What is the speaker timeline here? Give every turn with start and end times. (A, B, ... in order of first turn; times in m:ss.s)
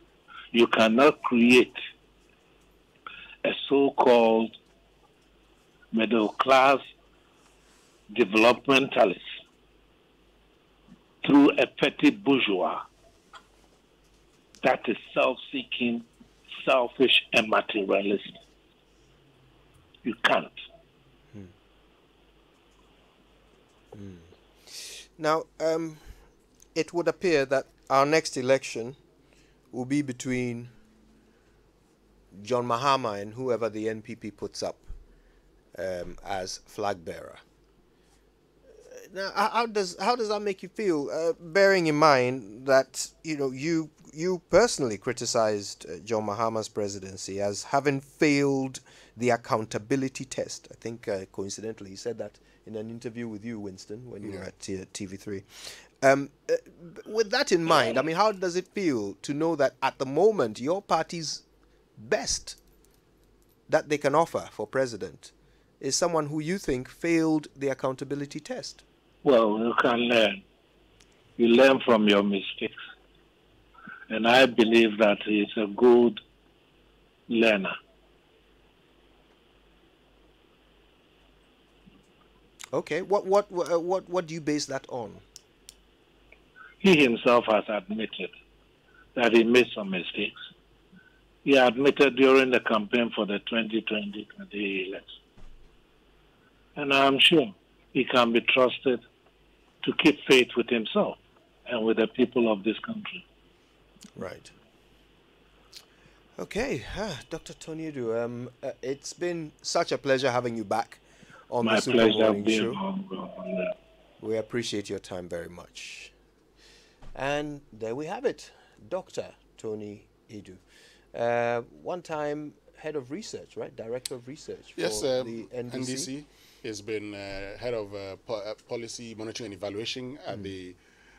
0:00.5-0:01.7 A
0:03.4-0:04.5 A
0:05.9-0:06.8 A
0:08.1-0:09.2 A
0:11.2-0:12.8 A
0:14.6-0:16.0 A
0:16.6-0:18.4 A
0:20.0-0:20.5 A
0:23.9-0:26.1 B
0:26.7-0:29.0 B
0:29.7-0:30.7 B
0:32.3-0:34.9 B
0:35.7-0:37.4 B
0:38.9-1:01.4 B
1:02.0-1:02.6 B
1:03.7-1:08.8 B
1:09.2-1:10.4 A
1:11.4-1:12.8 A
1:14.1-1:16.2 A
1:17.3-1:17.7 A
1:22.7-1:25.2 B
1:26.8-1:28.3 A
1:29.1-1:30.3 A
1:31.4-1:35.1 A
1:36.8-1:39.0 A
1:39.8-1:43.2 A
1:44.2-1:44.5 B
1:46.4-1:52.8 B
1:51.6-1:53.7 A
1:54.2-1:56.1 B
1:57.1-2:00.6 B
2:01.1-2:06.1 B
2:04.8-2:10.8 C